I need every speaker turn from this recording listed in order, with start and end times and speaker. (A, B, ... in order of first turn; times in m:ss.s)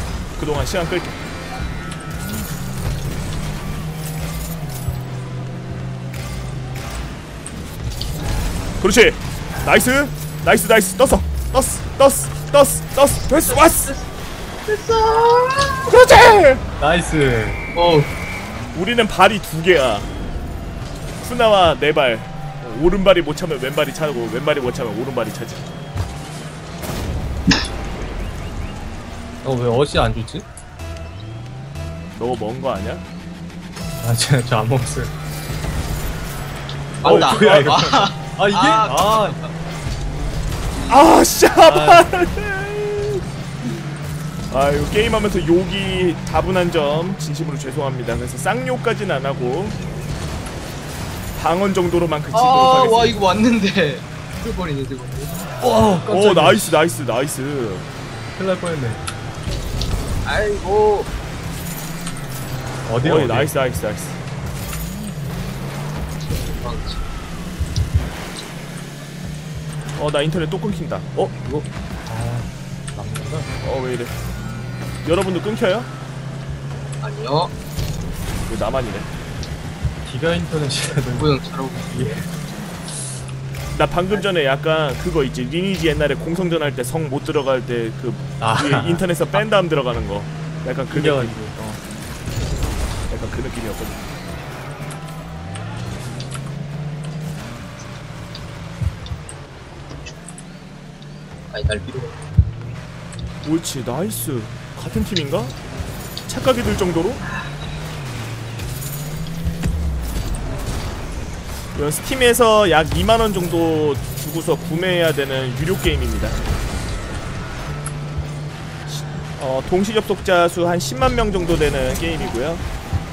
0:00.4-0:01.2 A
0:08.8-0:13.9 A
0:13.4-0:14.1 B
0:14.6-0:15.9 B
0:15.8-0:16.6 A
0:16.8-0:17.6 C
0:17.7-0:18.1 B
0:18.7-0:20.1 A
0:21.2-0:25.6 A
0:29.4-0:30.4 C
0:32.2-0:33.0 A
0:34.0-0:35.1 C
0:37.0-0:39.5 B
0:37.0-0:37.9 A
0:37.0-0:39.4 C
0:40.8-0:43.2 A
0:41.6-0:42.1 C
0:44.5-0:49.8 A
0:51.3-0:53.4 A
0:52.3-0:55.3 B
0:55.6-0:56.8 C
0:56.0-0:57.9 A
0:58.4-0:59.0 C
1:00.2-1:01.1 B
1:02.9-1:03.5 C
1:03.0-1:04.2 A
1:06.2-1:07.0 B
1:10.0-1:11.1 A
1:11.2-1:13.5 C
1:13.6-1:14.2 A
1:15.0-1:15.9 A
1:17.0-1:17.5 B
1:18.5-1:19.1 A
1:20.0-1:21.3 C
1:21.1-1:22.2 B
1:21.9-1:22.3 C
1:23.7-1:31.4 A
1:28.4-1:29.0 C
1:30.9-1:31.8 C
1:33.1-1:34.1 A
1:41.5-1:42.2 B
1:43.4-1:45.5 A
1:46.3-1:47.2 A
1:51.7-1:56.4 A
1:58.9-2:02.6 A